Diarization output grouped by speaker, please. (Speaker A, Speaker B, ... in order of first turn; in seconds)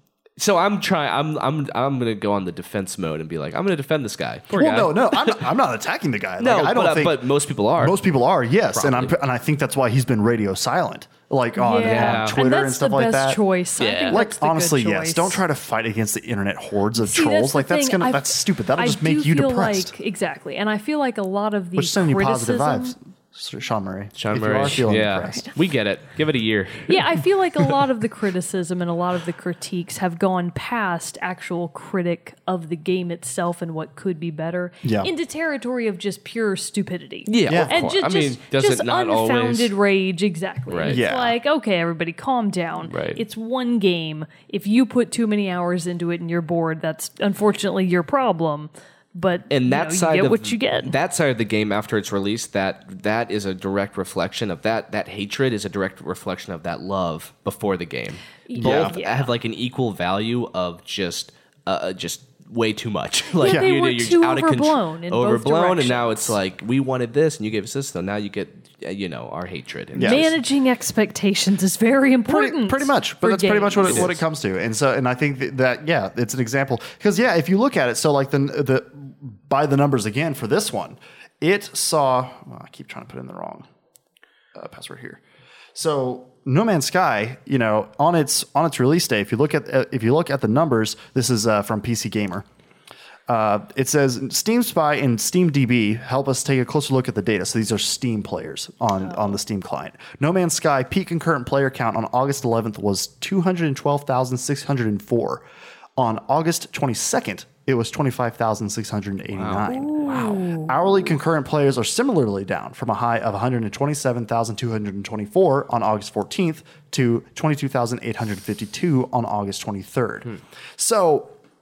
Speaker A: 0.4-5.5, 6.4-8.0, 8.7-9.2, 11.8-12.4, 13.8-14.2, 24.1-27.2, 37.3-39.7, 40.7-41.0, 42.9-43.2, 49.5-70.4, 73.8-74.2, 109.3-110.5
Speaker B: 4.5-7.2, 7.8-13.4, 14.1-19.9, 21.8-25.5, 34.8-35.1, 37.5-37.8, 40.9-41.4, 58.6-58.9, 63.4-63.7, 69.9-70.3, 72.3-83.7, 84.5-85.2, 85.7-92.5, 93.3-105.4, 106.0-121.3
Speaker C: 11.6-15.4, 16.9-22.9, 26.9-51.0, 58.5-59.3, 63.4-66.4, 70.0-74.1, 99.0-99.4, 109.7-110.7